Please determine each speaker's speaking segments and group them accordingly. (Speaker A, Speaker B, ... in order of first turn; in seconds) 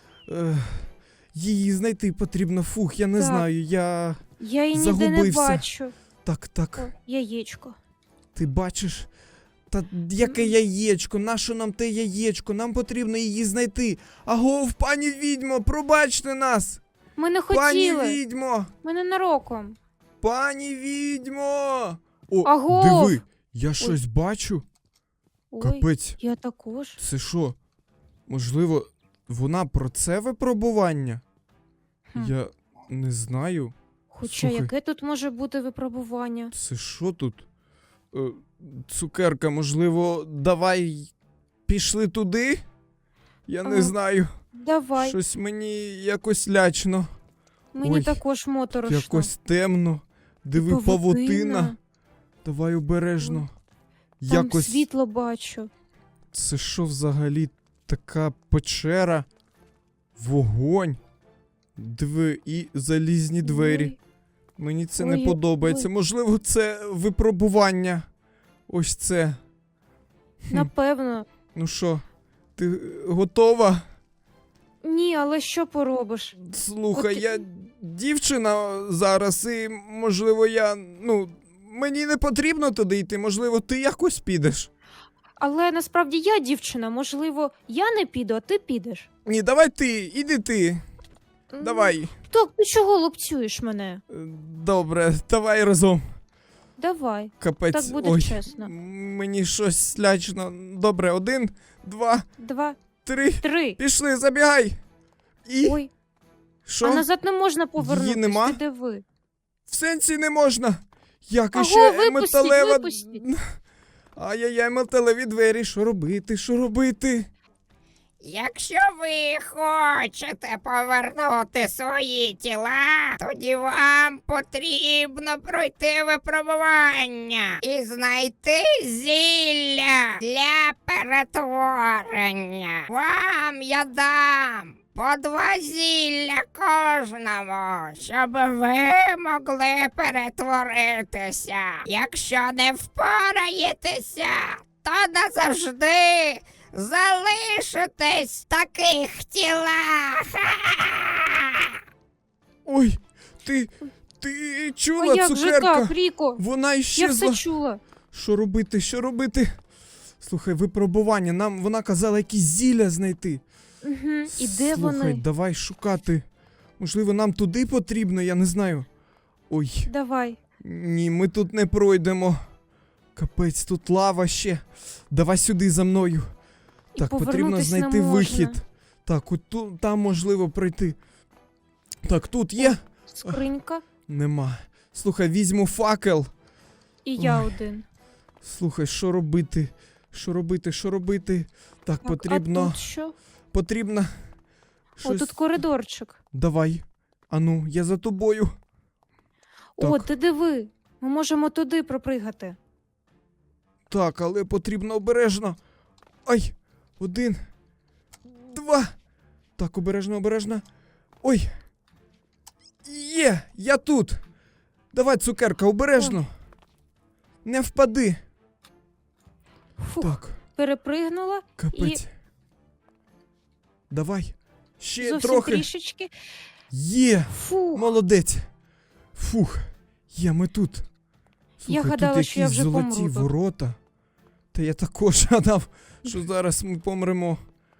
Speaker A: 0.3-4.2, 4.7-5.6, 6.2-6.9, 8.3-9.1, 9.7-16.8, 17.5-18.7, 20.2-24.6, 25.6-26.2, 27.0-27.6, 28.3-31.2, 32.1-34.7, 36.5-37.5, 38.1-41.1, 41.7-42.6, 43.5-44.3, 45.0-47.1, 47.8-48.2, 48.8-51.7, 52.4-53.5, 54.2-54.8, 56.3-59.3, 60.1-61.0, 61.8-64.0, 64.6-68.0, 68.7-69.4, 71.5-72.0, 72.6-73.9, 76.4-84.7, 89.2-90.8, 91.6-92.1, 94.1-96.0, 97.4-102.3, 103.0-104.8, 105.5-105.8, 106.7-107.1, 107.8-108.6, 109.7-113.4, 114.1-117.3, 152.7-157.5, 158.1-159.6, 160.2-163.4, 164.3-166.2, 166.8-168.9, 169.5-169.9, 170.6-172.4, 173.2-176.3, 177.0-181.0, 182.0-183.4, 184.1-186.3, 187.2-187.6, 188.4-192.9, 193.5-194.3, 195.0-195.6, 196.3-198.5, 199.8-200.1, 203.9-205.6, 206.2-207.4, 208.2-208.9, 209.6-210.6, 211.2-211.6, 212.8-214.2, 214.9-216.3, 217.4-218.2, 220.0-220.4, 221.6-222.1, 223.9-225.7, 226.7-228.5, 229.1-230.9, 231.6-233.8, 234.5-237.4
Speaker B: 3.2-3.5, 4.4-5.9, 6.8-7.8, 10.2-10.5, 17.2-18.2, 18.8-19.8, 22.4-23.2, 25.5-27.0, 34.1-36.5, 43.6-44.0, 44.5-45.2, 47.7-49.3, 50.5-51.8, 53.2-53.5, 54.3-55.7, 63.4-64.0, 65.0-65.9, 70.5-71.3, 74.8-76.4, 76.9-77.4, 85.4-89.1, 91.5-94.0, 96.8-98.7, 102.4-102.8, 103.4-103.8, 105.6-105.9, 106.8-109.0, 111.5-113.2, 155.0-156.4, 156.9-157.8, 163.8-165.2, 169.9-170.4, 176.9-178.6, 182.6-183.8, 187.0-187.8, 192.0-193.1, 195.0-196.2, 199.8-202.6, 219.8-222.0, 225.0-226.3, 227.3-227.9, 231.7-233.3
Speaker C: 118.2-151.7